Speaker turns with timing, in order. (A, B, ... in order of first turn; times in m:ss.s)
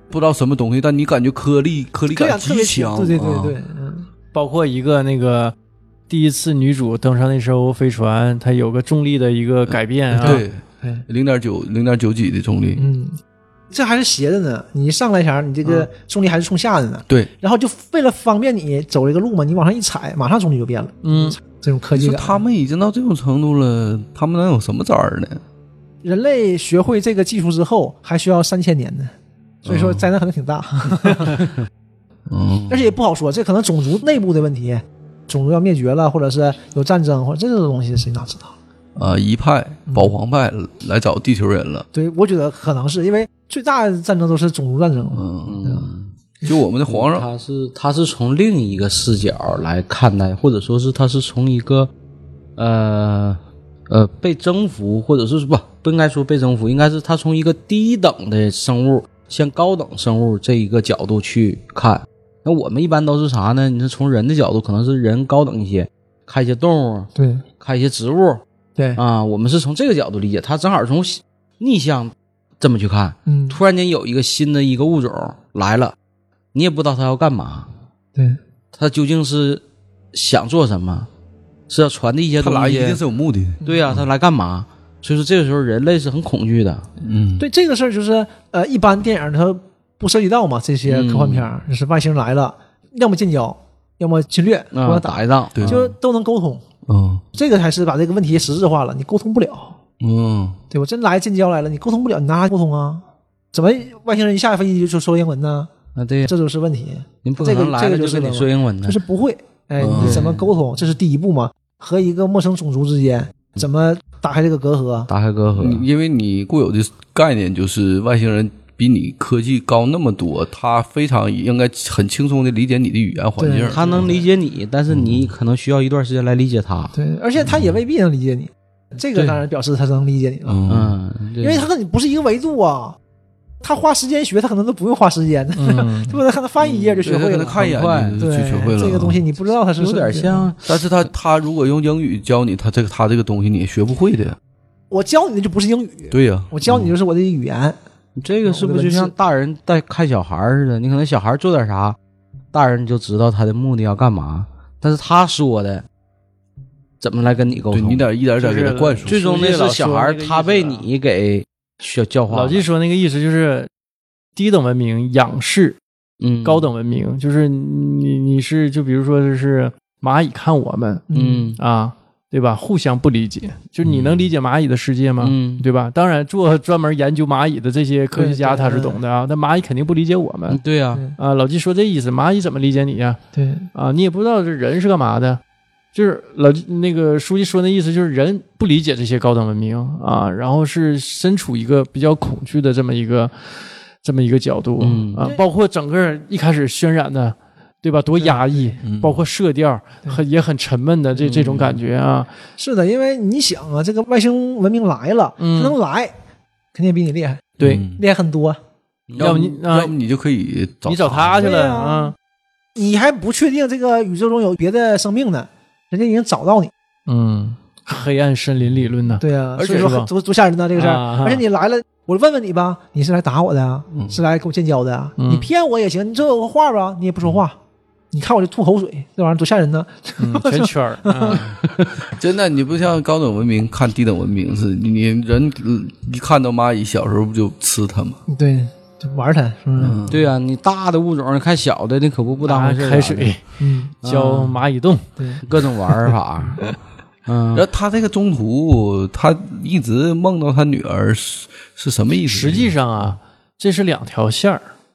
0:00.1-0:03.6 A
0:02.1-0:04.1 B
0:04.3-0:05.5 C
0:06.1-0:10.4 C
0:09.7-0:12.9 A
0:10.2-0:11.0 B
0:12.8-0:13.2 B
0:13.7-0:22.4 B
0:21.0-0:21.4 C
0:21.9-0:25.4 A
0:26.0-0:29.1 B
0:29.6-0:31.5 B
0:29.6-0:30.0 A
0:32.3-0:32.9 A
0:32.7-0:38.5 B
0:39.0-0:41.9 A
0:41.9-0:45.9 B
0:45.1-0:45.8 A
0:45.4-0:46.1 D
0:46.4-0:47.3 A
0:46.9-0:51.9 D
0:52.6-1:08.4 D
1:07.2-1:07.4 B
1:09.0-1:15.9 D
1:13.3-1:13.6 B
1:16.5-1:17.7 D
1:18.7-1:19.6 D
1:20.1-1:21.1 D
1:21.7-1:23.0 D
1:22.4-1:24.0 A
1:23.6-1:26.9 D
1:27.0-1:27.5 A
1:27.4-1:36.6 B
1:30.9-1:31.5 D
1:34.7-1:35.9 D
1:35.5-1:35.8 A
1:36.9-1:37.2 A
1:37.4-1:39.8 B
1:40.0-1:40.6 A
1:40.7-1:45.7 B
1:46.0-1:46.3 D
1:46.2-1:55.1 B
1:47.2-1:49.0 D
1:49.8-1:50.2 A
1:49.9-1:50.4 D
1:55.1-1:55.8 D
1:55.6-2:04.1 A
2:03.4-2:04.3 B
2:03.7-2:06.9 D
2:04.9-2:05.3 A
2:06.9-2:10.6 B
2:10.4-2:11.0 A
2:10.7-2:11.7 D
2:11.4-2:13.0 B
2:13.6-2:17.6 B
2:15.6-2:16.2 C
2:16.6-2:18.2 D
2:17.0-2:19.2 A
2:18.2-2:20.5 B
2:19.8-2:20.6 D
2:20.6-2:24.4 A
2:24.9-2:27.8 B
2:26.1-2:26.9 A
2:28.2-2:32.0 D
2:28.4-2:29.1 B
2:32.5-2:35.8 D
2:37.0-2:38.0 D
2:37.7-2:39.2 A
2:38.4-2:40.9 C
2:39.0-2:42.6 D
2:42.3-2:43.7 C
2:44.4-2:45.8 C
2:46.2-2:46.7 D
2:46.4-3:00.6 C
2:51.1-2:51.5 B
2:51.1-2:51.6 D
2:55.2-2:55.6 D
2:58.1-2:59.0 B
3:00.5-3:01.0 D
3:01.2-3:03.2 C
3:03.3-3:03.7 B
3:03.7-3:05.4 C
3:05.9-3:13.3 C
3:14.0-3:22.3 C
3:14.8-3:15.3 D
3:18.2-3:18.7 B
3:18.8-3:19.2 A
3:21.3-3:21.7 D
3:22.6-3:26.1 B
3:25.4-3:25.8 C
3:26.7-3:28.6 B
3:27.6-3:28.0 A
3:29.1-3:31.4 A
3:29.2-3:29.9 C
3:30.8-3:32.1 C
3:31.3-3:32.1 B
3:32.7-3:36.7 B
3:37.1-3:40.1 C
3:39.2-3:47.6 B
3:39.6-3:39.9 A
3:40.7-3:41.4 C
3:45.2-3:45.5 C
3:48.1-3:51.4 B
3:50.2-3:51.5 C
3:51.4-3:51.9 D
3:52.0-3:58.2 A
3:58.3-4:00.0 B
3:59.8-4:00.2 A
4:00.1-4:03.4 D
4:02.4-4:03.4 C
4:03.6-4:03.9 B
4:04.0-4:04.6 D
4:04.0-4:05.1 C
4:05.2-4:05.4 B
4:05.4-4:06.7 D
4:07.2-4:07.6 D
4:07.5-4:12.7 A
4:12.2-4:14.7 C